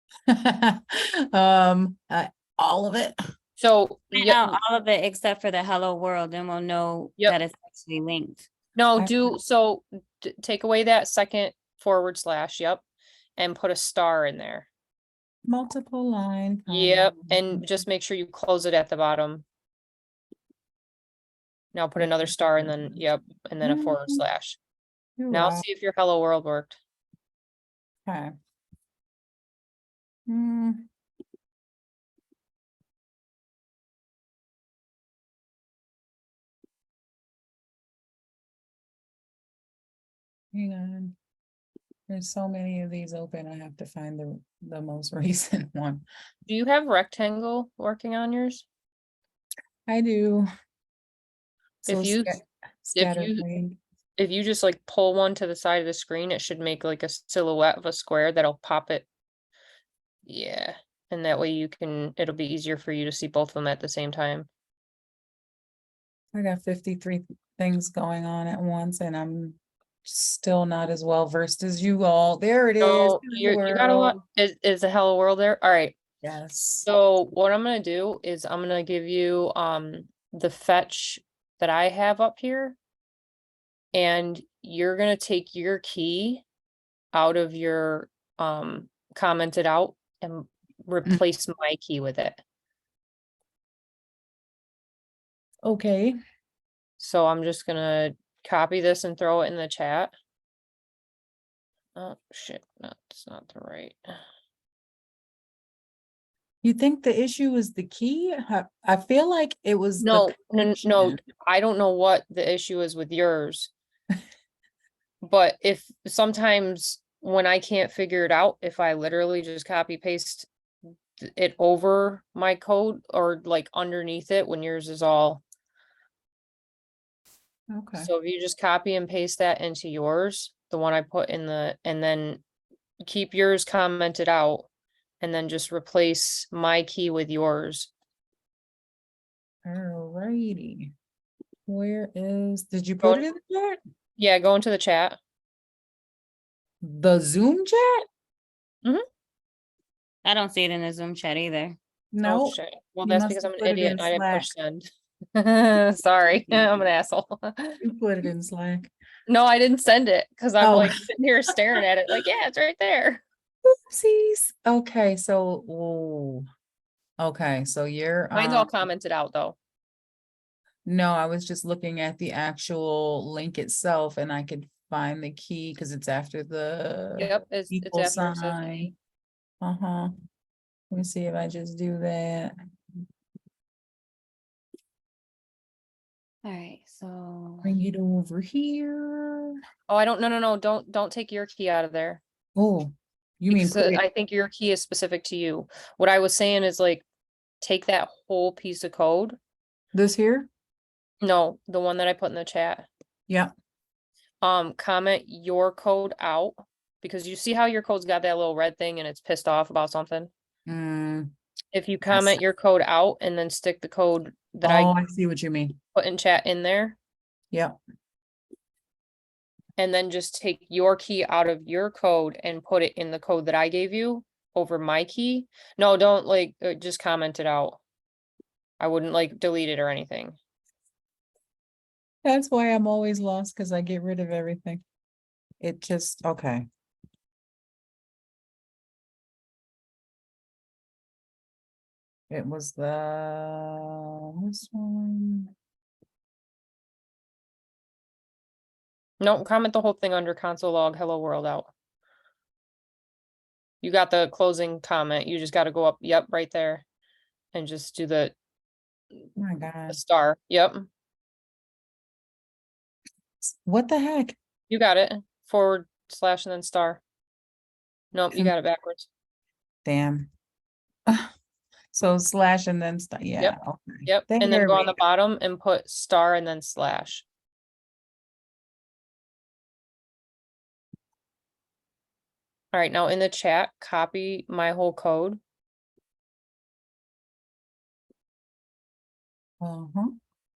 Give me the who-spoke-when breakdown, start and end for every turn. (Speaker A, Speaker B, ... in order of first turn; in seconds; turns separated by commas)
Speaker A: 0.3-3.1, Speaker B: 3.6-4.6, Speaker C: 4.1-8.5, Speaker B: 8.8-12.8, Speaker A: 9.0-9.3, Speaker B: 13.4-14.7, Speaker A: 15.5-17.7, Speaker B: 16.7-19.5, Speaker B: 21.7-24.6, Speaker A: 22.0-23.0, Speaker A: 23.6-24.2, Speaker A: 25.2-25.6, Speaker B: 25.3-26.8, Speaker A: 28.1-28.3, Speaker A: 30.3-30.9, Speaker A: 40.5-41.2, Speaker A: 42.1-46.0, Speaker B: 46.5-48.7, Speaker A: 49.9-50.5, Speaker B: 51.8-52.4, Speaker A: 51.9-53.8, Speaker B: 52.9-53.4, Speaker B: 54.2-59.1, Speaker B: 60.3-64.5, Speaker A: 66.3-74.2, Speaker B: 72.8-76.0, Speaker A: 76.2-76.9, Speaker B: 76.8-82.8, Speaker B: 83.9-86.4, Speaker B: 87.1-92.4, Speaker A: 95.6-96.2, Speaker B: 97.0-100.1, Speaker B: 102.0-104.2, Speaker A: 106.6-111.2, Speaker B: 110.0-113.7, Speaker B: 115.2-120.5, Speaker B: 121.2-125.4, Speaker A: 127.7-128.1, Speaker B: 128.0-132.4, Speaker B: 133.0-134.7, Speaker B: 135.2-137.9, Speaker A: 139.7-140.9, Speaker A: 141.7-143.8, Speaker B: 144.2-145.2, Speaker A: 146.8-148.0, Speaker C: 150.2-151.8, Speaker A: 152.1-154.5, Speaker B: 152.2-157.8, Speaker A: 157.8-158.9, Speaker B: 159.3-163.2, Speaker A: 160.6-161.0, Speaker A: 163.9-166.5, Speaker A: 167.2-168.7, Speaker B: 168.3-169.6, Speaker A: 170.8-178.9, Speaker B: 177.2-178.9, Speaker A: 179.6-180.1, Speaker A: 180.9-182.5, Speaker C: 186.4-187.8, Speaker A: 187.6-189.6, Speaker B: 189.9-192.2, Speaker A: 192.6-194.0, Speaker B: 193.5-197.1, Speaker B: 197.6-199.4, Speaker A: 199.9-200.5, Speaker B: 201.2-202.9, Speaker B: 204.4-210.3, Speaker A: 210.7-211.3, Speaker B: 211.7-214.9, Speaker A: 212.1-212.4, Speaker A: 214.6-215.8, Speaker B: 215.9-217.0, Speaker B: 219.8-227.8, Speaker B: 228.8-230.4, Speaker A: 232.2-234.8, Speaker A: 235.6-236.7, Speaker A: 242.3-245.5, Speaker B: 249.2-251.7, Speaker B: 253.8-256.8, Speaker B: 257.5-258.4, Speaker A: 259.4-260.0, Speaker B: 259.9-260.9, Speaker A: 263.4-264.4, Speaker B: 264.7-267.0, Speaker B: 268.1-269.1, Speaker A: 269.9-270.3, Speaker A: 271.9-275.0, Speaker B: 273.4-277.2, Speaker B: 282.7-285.4, Speaker A: 289.6-290.1